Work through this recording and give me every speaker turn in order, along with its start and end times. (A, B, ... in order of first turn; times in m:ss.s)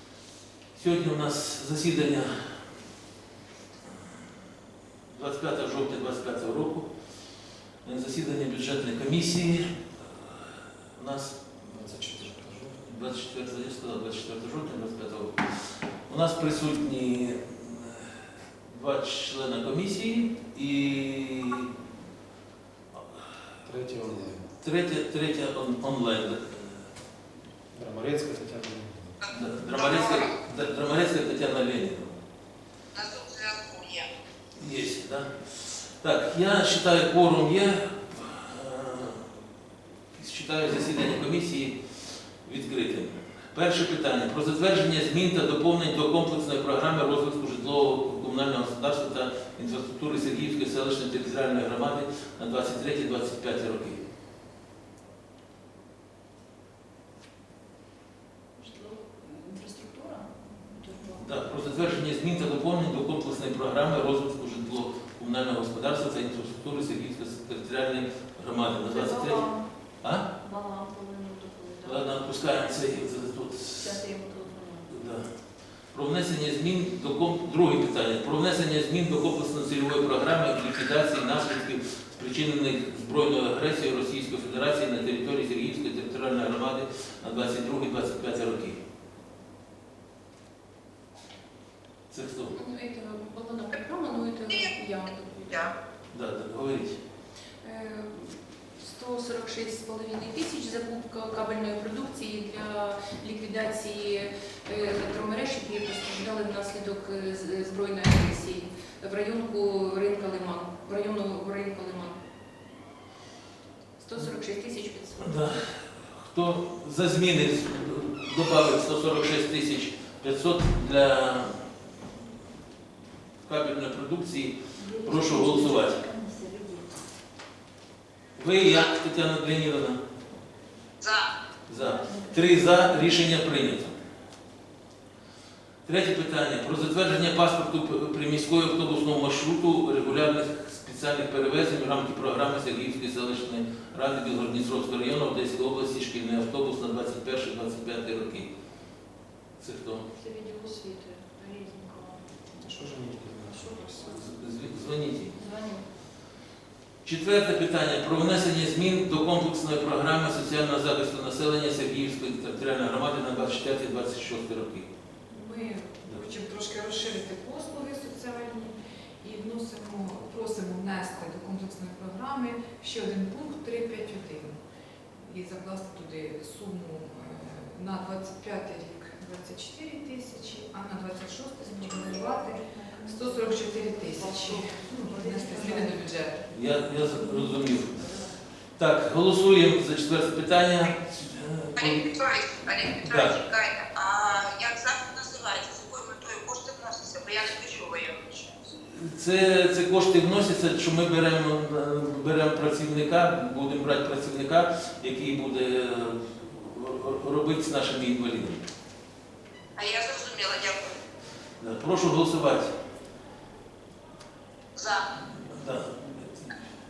0:00.7-0:02.6 A
0:05.1-0:06.9 A
0:07.8-0:11.4 A
0:11.6-0:12.8 B
0:12.8-0:21.7 A
0:23.6-0:24.5 B
0:24.6-0:26.8 A
0:27.7-0:29.2 B
0:29.2-0:30.3 C
0:29.3-0:32.1 A
0:32.9-0:34.1 C
0:34.6-0:39.3 A
0:40.1-0:41.8 A
0:42.4-0:54.0 A
0:58.6-1:01.2 D
1:01.2-1:09.4 A
1:08.9-1:09.6 D
1:10.4-1:12.0 D
1:11.8-1:14.0 A
1:13.8-1:15.0 D
1:14.9-1:15.2 A
1:15.9-1:28.8 A
1:32.1-1:32.5 A
1:32.6-1:35.7 E
1:36.1-1:37.0 A
1:37.6-1:52.2 E
1:54.0-1:55.4 E
1:55.2-2:01.6 A
2:03.4-2:06.0 A
2:04.8-2:06.9 D
2:08.4-2:10.0 A
2:11.0-2:11.3 C
2:11.7-2:13.9 A
2:11.8-2:13.1 D
2:15.8-2:28.5 A
2:29.6-2:30.0 A
2:30.1-2:32.2 D
2:32.6-2:34.0 B
2:33.4-2:34.3 D
2:34.1-2:35.4 A
2:35.3-2:35.8 D
2:37.0-2:44.9 A
2:45.3-2:54.6 F
2:55.2-3:06.4 F
3:01.6-3:06.1 D
3:06.5-3:08.0 A
3:07.2-3:08.2 D
3:08.8-3:12.0 A
3:11.7-3:18.5 C
3:13.0-3:13.4 A
3:18.8-3:28.6 A
3:29.8-3:31.0 C
3:31.6-3:32.7 A
3:34.7-3:35.0 C
3:35.5-3:36.5 A